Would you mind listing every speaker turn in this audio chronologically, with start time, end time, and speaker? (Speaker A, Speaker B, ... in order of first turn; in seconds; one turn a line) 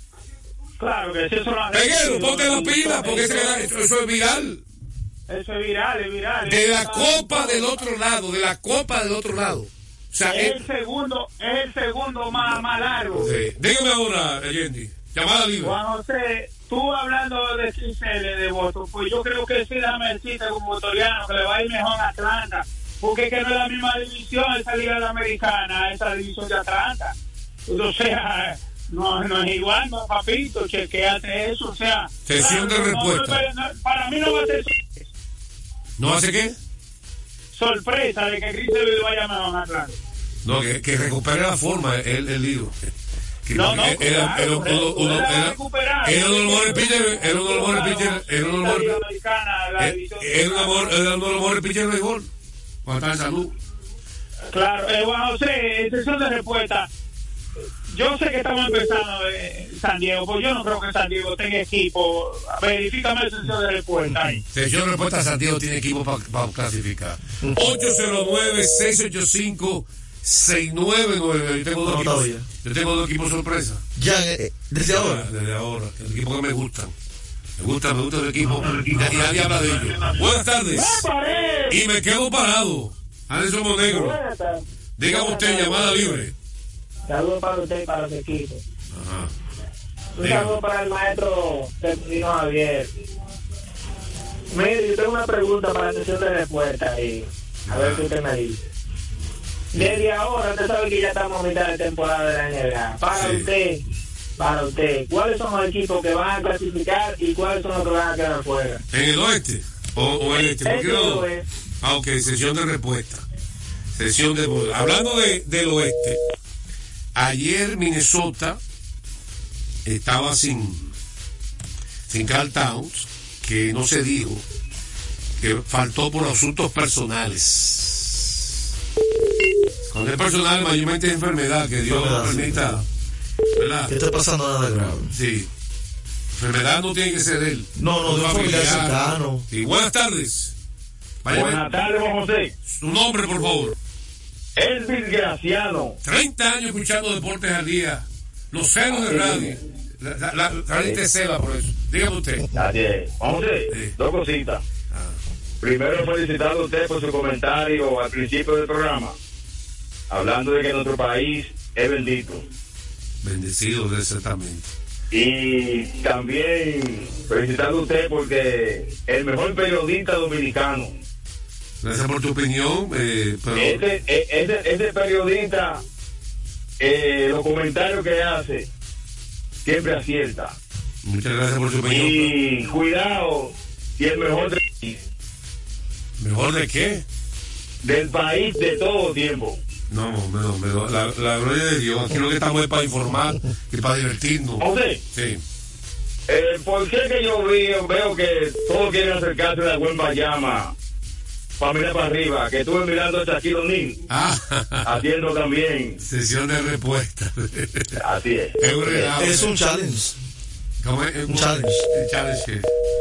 Speaker A: 0.8-3.7
Speaker B: 1.7-4.6
Speaker A: 5.3-7.8
Speaker B: 6.4-10.6
Speaker A: 10.3-13.3
Speaker B: 13.1-15.8
Speaker A: 15.6-27.1
Speaker A: 27.7-34.8
Speaker B: 32.3-33.4
Speaker B: 36.0-36.5
Speaker A: 37.5-40.0
Speaker B: 40.5-42.8
Speaker B: 43.5-49.0
Speaker A: 43.5-51.0
Speaker B: 49.8-52.3
Speaker B: 52.8-53.5
Speaker A: 54.5-56.9
Speaker A: 57.9-64.4
Speaker B: 64.5-73.8
Speaker C: 71.8-72.4
Speaker C: 74.0-75.2
Speaker B: 74.9-76.9
Speaker B: 77.6-81.1
Speaker D: 80.7-81.8
Speaker B: 81.7-84.2
Speaker D: 83.8-86.2
Speaker B: 85.0-86.3
Speaker D: 87.1-88.6
Speaker B: 88.9-89.3
Speaker D: 90.2-92.9
Speaker B: 90.2-90.5
Speaker D: 94.5-98.6
Speaker B: 97.7-98.0
Speaker D: 99.7-103.8
Speaker B: 103.2-103.5
Speaker D: 104.4-108.8
Speaker B: 108.9-111.3
Speaker D: 110.3-111.4
Speaker B: 111.8-113.2
Speaker B: 113.9-116.2
Speaker B: 117.1-118.6
Speaker B: 119.8-120.9
Speaker B: 122.1-124.4
Speaker B: 125.4-128.4
Speaker B: 129.9-132.8
Speaker C: 131.9-132.8
Speaker B: 133.6-133.9
Speaker C: 133.9-135.1
Speaker B: 135.1-135.5
Speaker B: 136.3-140.5
Speaker C: 137.8-139.5
Speaker B: 141.2-141.6
Speaker E: 141.3-142.5
Speaker B: 142.7-143.8
Speaker E: 144.6-146.0
Speaker B: 146.0-152.5
Speaker E: 148.9-149.5
Speaker E: 152.6-154.6
Speaker E: 155.6-159.2
Speaker E: 160.1-162.4
Speaker B: 163.2-164.7
Speaker E: 165.1-171.0
Speaker B: 171.8-173.8
Speaker E: 173.6-175.8
Speaker E: 176.8-178.7
Speaker E: 179.7-180.6
Speaker B: 181.0-182.3
Speaker E: 181.8-185.0
Speaker B: 186.2-187.0
Speaker E: 187.8-189.6
Speaker B: 189.9-195.4
Speaker E: 194.6-195.0
Speaker E: 196.3-200.7
Speaker E: 201.6-203.9
Speaker B: 204.1-204.8
Speaker E: 204.8-206.0
Speaker B: 206.0-207.9
Speaker E: 208.0-208.5
Speaker B: 208.6-209.5
Speaker C: 208.9-210.2
Speaker B: 210.8-212.7
Speaker C: 211.3-211.8